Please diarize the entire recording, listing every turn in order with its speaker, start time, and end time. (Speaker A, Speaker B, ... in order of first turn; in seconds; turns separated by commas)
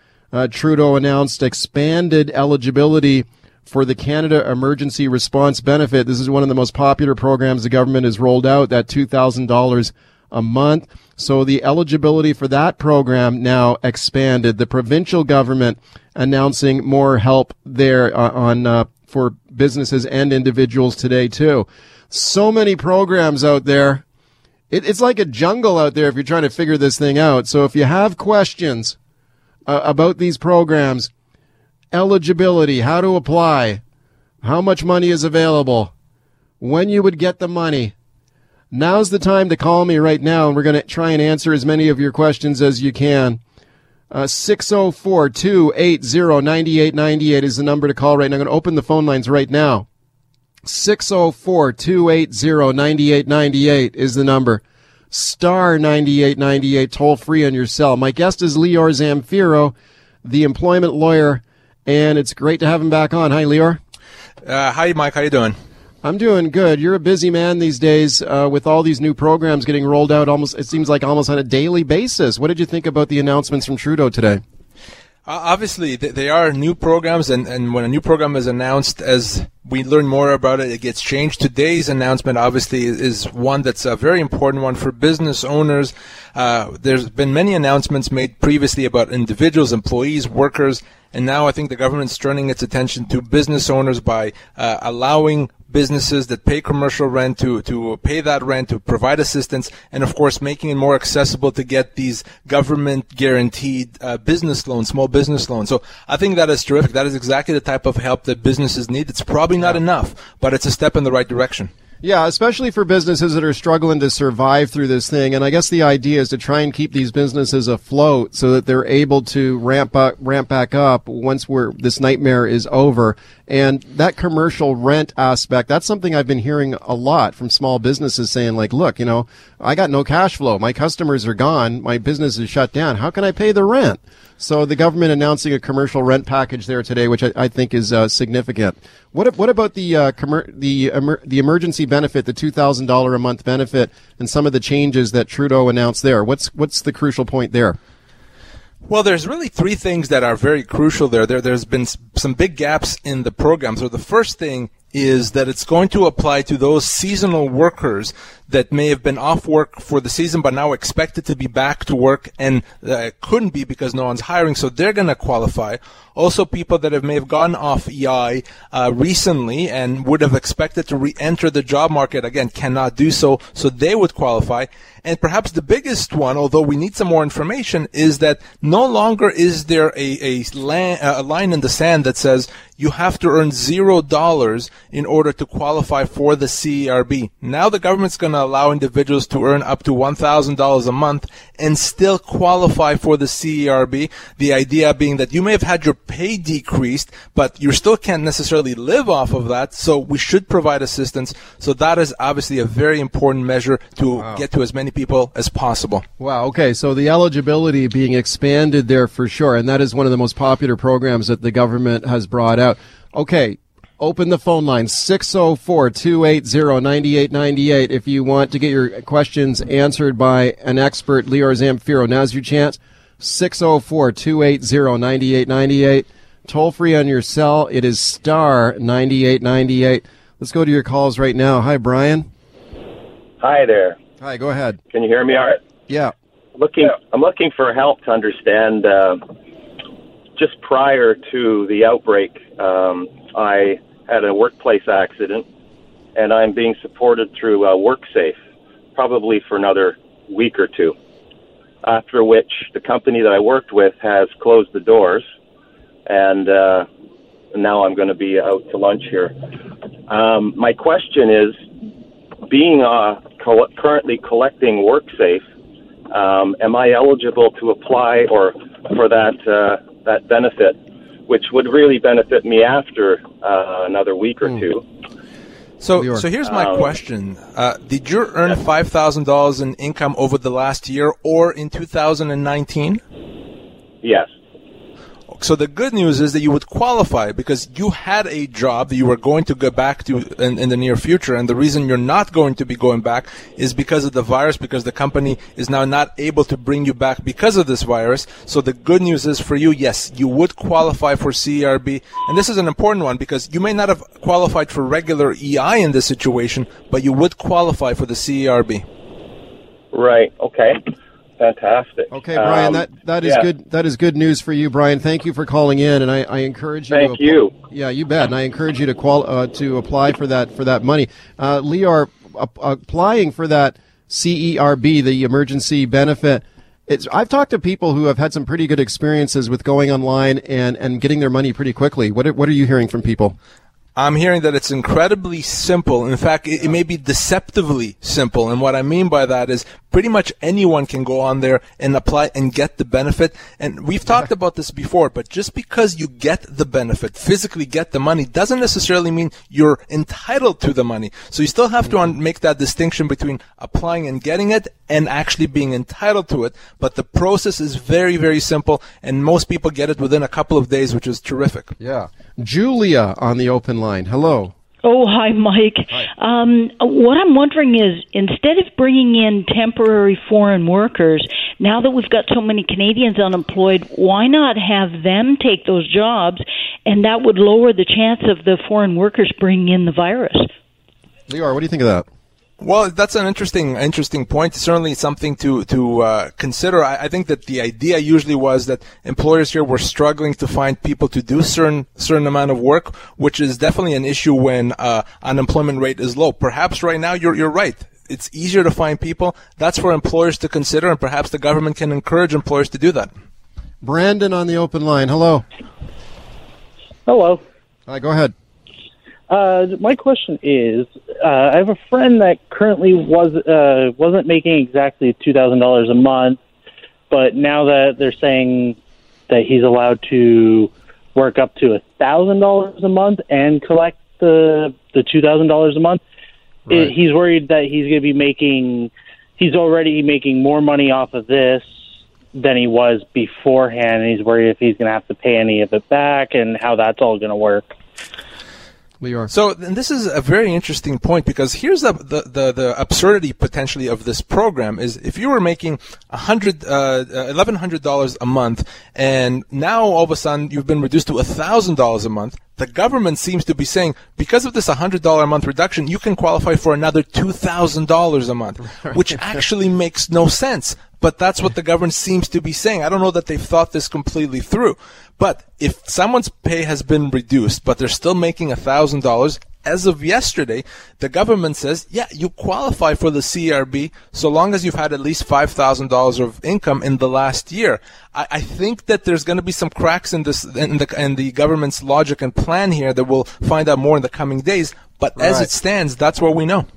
Speaker A: 0.3-24.0, Speaker A: 24.7-29.0, Speaker A: 29.7-31.1, Speaker A: 31.9-33.8, Speaker A: 34.4-35.9, Speaker A: 36.6-37.9, Speaker A: 38.7-43.4, Speaker A: 44.1-49.9, Speaker A: 50.6-63.8, Speaker B: 64.5-65.6, Speaker A: 66.0-74.4, Speaker B: 75.3-111.7, Speaker A: 112.0-147.8, Speaker B: 148.9-206.1, Speaker A: 204.2-204.4, Speaker A: 206.2-232.3, Speaker C: 233.4-234.0, Speaker A: 234.2-234.8, Speaker C: 234.9-235.6, Speaker A: 235.9-236.1, Speaker C: 236.6-239.2, Speaker C: 240.4-245.4, Speaker C: 246.2-248.4, Speaker C: 248.9-251.0, Speaker C: 251.8-255.2, Speaker C: 256.1-256.9, Speaker C: 257.5-259.4, Speaker C: 260.1-261.6, Speaker C: 262.5-265.5, Speaker C: 266.1-270.8, Speaker C: 271.3-274.8, Speaker B: 275.8-283.0, Speaker A: 276.0-276.2, Speaker C: 276.4-276.9, Speaker C: 284.0-284.3, Speaker B: 285.3-308.9, Speaker C: 309.9-310.8, Speaker C: 311.4-313.5, Speaker A: 312.1-333.4, Speaker C: 316.9-317.5, Speaker B: 334.0-361.7, Speaker A: 361.8-364.5, Speaker D: 364.9-380.5, Speaker A: 381.3-382.1, Speaker B: 382.6-403.1, Speaker A: 403.8-405.4, Speaker E: 407.1-407.4, Speaker A: 407.9-408.3, Speaker E: 409.3-416.4, Speaker E: 417.1-418.8, Speaker E: 419.3-426.0, Speaker A: 426.7-426.9, Speaker E: 426.7-431.7, Speaker E: 432.3-437.7, Speaker A: 439.0-439.3, Speaker B: 439.3-486.7, Speaker A: 485.2-485.5